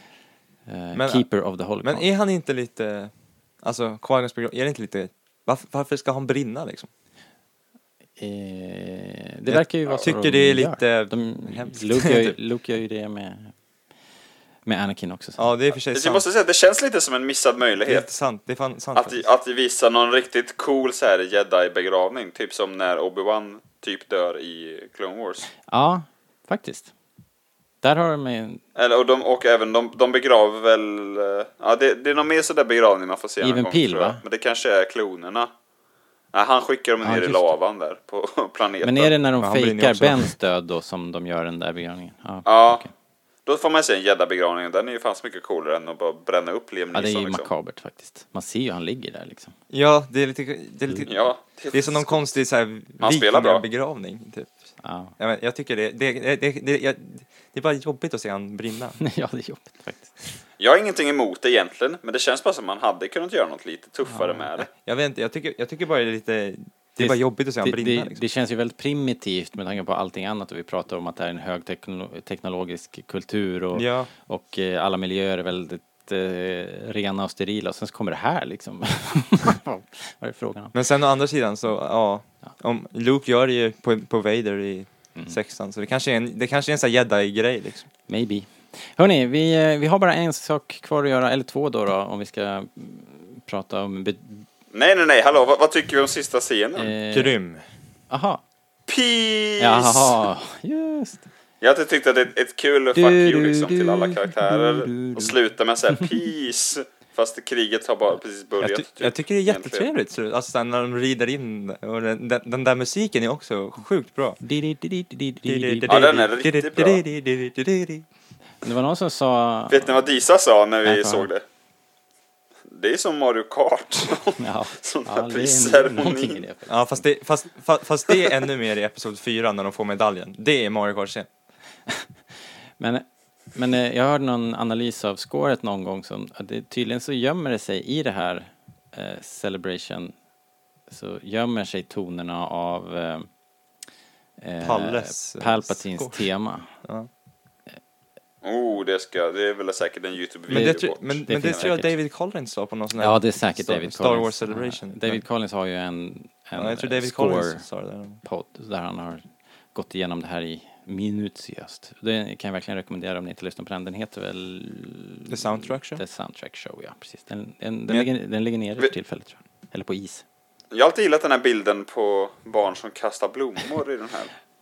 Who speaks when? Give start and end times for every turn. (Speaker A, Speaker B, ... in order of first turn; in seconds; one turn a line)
Speaker A: 0.7-2.1
Speaker B: 0.9-1.3
Speaker B: 1.8-6.9
Speaker A: 8.2-13.5
Speaker B: 9.5-12.4
Speaker A: 14.7-15.5
Speaker B: 15.4-16.2
Speaker C: 15.9-18.1
Speaker B: 17.9-19.2
Speaker C: 18.9-25.5
Speaker A: 25.7-26.9
Speaker A: 27.8-28.6
Speaker C: 28.8-35.5
Speaker A: 33.4-34.2
Speaker C: 36.3-39.1
Speaker A: 37.0-37.5
Speaker A: 38.8-42.9
Speaker B: 39.4-40.3
Speaker C: 42.5-42.8
Speaker C: 43.5-47.5
Speaker A: 46.9-49.5
Speaker B: 49.7-59.0
Speaker C: 51.1-52.3
Speaker C: 53.0-53.6
Speaker A: 54.8-55.1
Speaker A: 59.0-60.1
Speaker C: 60.6-64.7
Speaker A: 64.1-64.5
Speaker B: 64.7-68.2
Speaker A: 67.0-80.7
Speaker B: 73.7-74.1
Speaker B: 80.7-87.9
Speaker A: 88.1-94.5
Speaker C: 94.7-96.9
Speaker A: 96.8-97.3
Speaker B: 97.1-97.7
Speaker A: 98.1-98.4
Speaker C: 98.9-100.3
Speaker A: 99.6-101.2
Speaker C: 101.6-109.9
Speaker A: 103.0-105.3
Speaker B: 108.6-114.4
Speaker A: 114.4-116.0
Speaker B: 115.5-118.0
Speaker C: 115.9-117.0
Speaker A: 118.6-120.1
Speaker C: 119.7-121.4
Speaker A: 120.8-121.3
Speaker C: 122.7-126.4
Speaker A: 124.4-127.0
Speaker B: 126.7-131.3
Speaker A: 132.8-140.1
Speaker A: 140.9-143.3
Speaker A: 144.4-146.7
Speaker B: 144.6-146.3
Speaker B: 146.8-147.1
Speaker C: 148.4-151.7
Speaker B: 150.5-155.2
Speaker A: 150.5-151.9
Speaker A: 153.0-157.7
Speaker B: 156.6-158.2
Speaker A: 158.2-170.2
Speaker B: 165.3-166.0
Speaker C: 170.7-174.3